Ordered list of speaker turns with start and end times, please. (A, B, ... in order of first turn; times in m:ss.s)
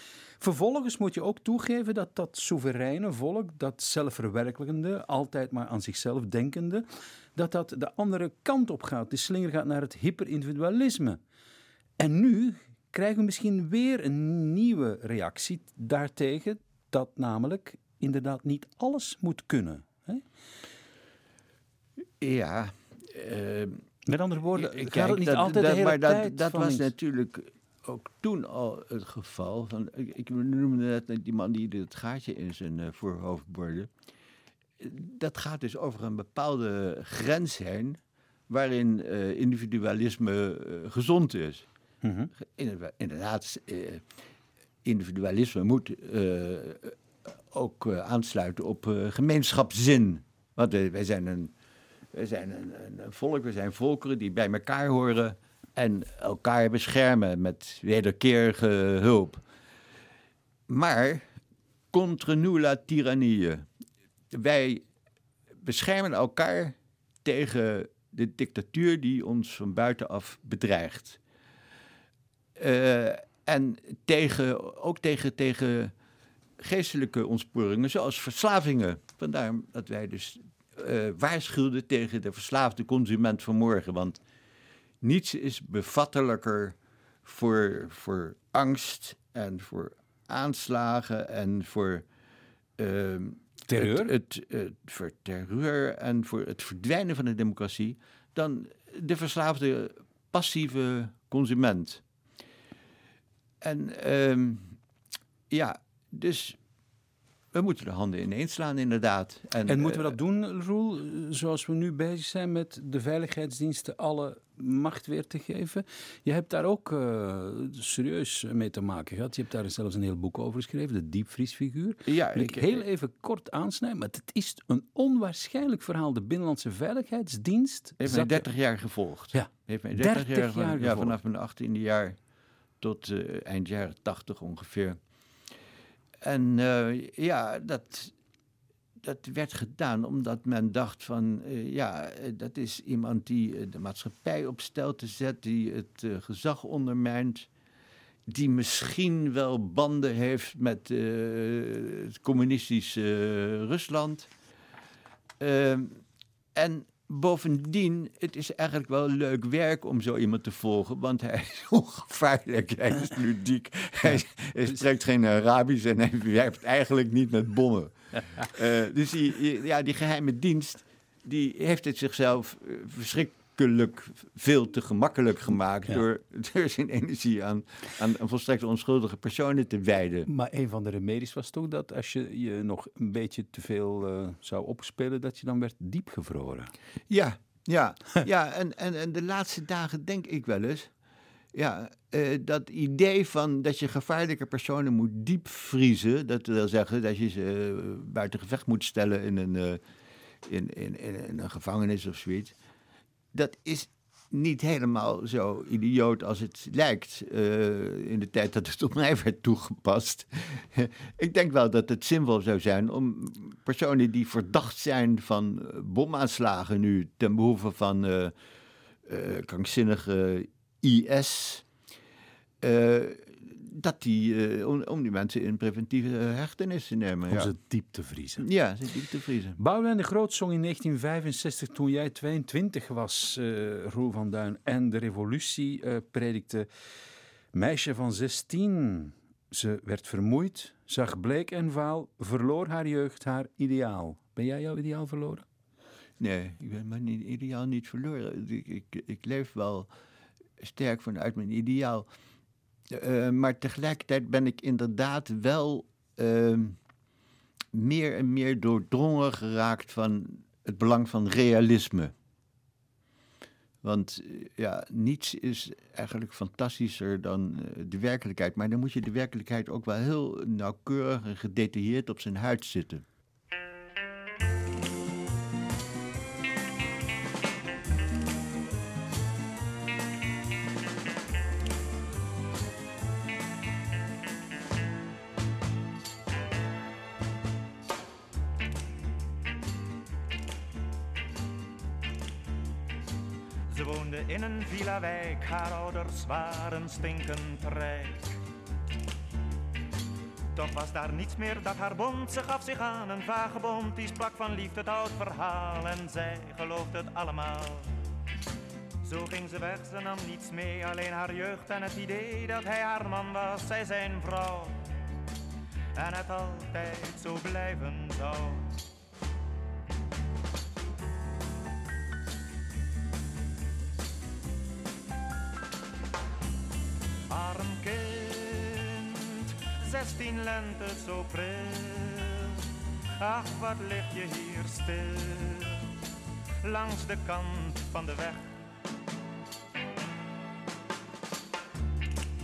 0:00.4-0:11.2 A
0:12.0-0:20.2 A
0:22.2-0:23.8 B
0:24.1-0:26.9 A
0:24.5-0:33.9 B
0:34.8-0:41.7 B
0:42.0-0:42.3 A
0:42.4-0:44.0 B
0:44.8-0:47.0 B
0:47.5-0:51.5 B
0:52.1-0:59.4 B
1:00.7-1:01.3 B
1:01.9-1:03.7 B
1:04.3-1:04.8 B
1:05.6-1:11.2 B
1:12.6-1:15.9 B
1:16.6-1:24.2 B
1:25.0-1:32.1 B
1:32.8-1:42.0 B
1:33.7-1:34.1 A
1:43.6-1:44.8 B
1:45.5-1:46.6 B
1:47.5-1:50.1 B
1:49.7-2:08.5 A
2:02.1-2:02.8 B
2:08.0-2:12.2 B
2:09.3-2:11.2 A
2:12.8-2:15.0 B
2:16.2-2:18.1 B
2:19.0-2:27.5 B
2:28.3-2:34.3 B
2:35.4-2:36.0 B
2:36.6-3:00.3 B
3:00.3-3:06.7 A
3:07.1-3:10.9 B
3:11.5-3:19.8 B
3:20.4-3:22.5 B
3:23.3-3:38.3 B
3:39.1-3:41.7 B
3:42.6-3:47.5 B
3:47.3-3:48.5 A
3:48.4-3:49.6 B
3:49.6-3:56.7 A
3:57.5-4:05.4 A
4:06.2-4:09.9 B
4:10.6-4:12.1 B
4:12.9-4:16.8 B
4:17.7-4:22.1 B
4:23.8-4:33.0 B
4:53.7-4:58.4 C
5:00.5-5:07.9 C
5:09.0-5:14.9 C
5:16.0-5:18.8 C
5:27.3-5:35.9 C
5:36.6-5:38.5 C